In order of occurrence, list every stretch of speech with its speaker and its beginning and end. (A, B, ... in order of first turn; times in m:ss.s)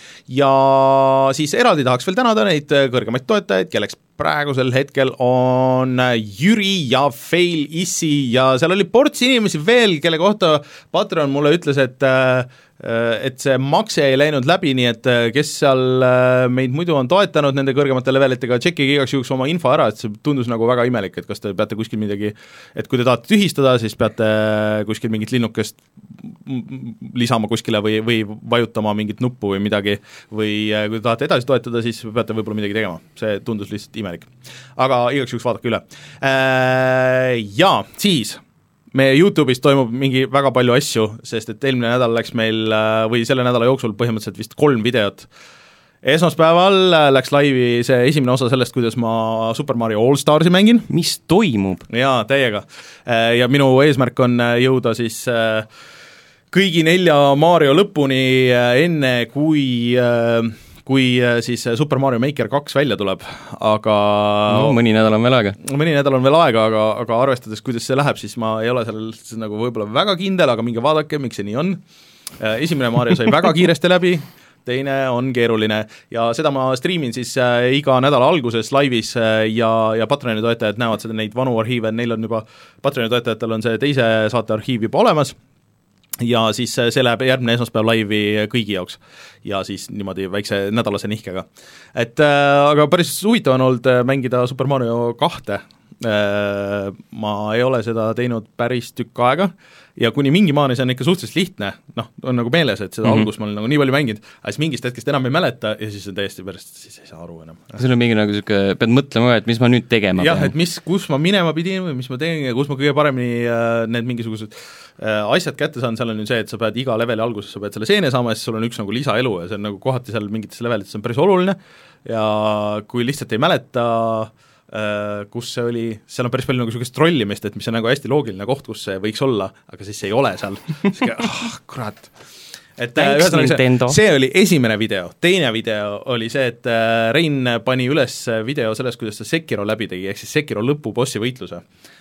0:00.3-0:38.4 A
0:38.9-0:45.3 A
0:46.0-0:50.9 A
0:50.9-0:51.9 B
0:51.9-0:55.7 A
0:56.5-1:04.8 A
1:04.5-1:05.6 B
1:05.6-1:11.8 A
1:12.4-1:25.4 A
1:26.2-1:47.8 A
1:47.8-1:50.5 B
1:50.2-2:12.1 A
2:12.8-2:21.6 A
2:13.0-2:14.0 B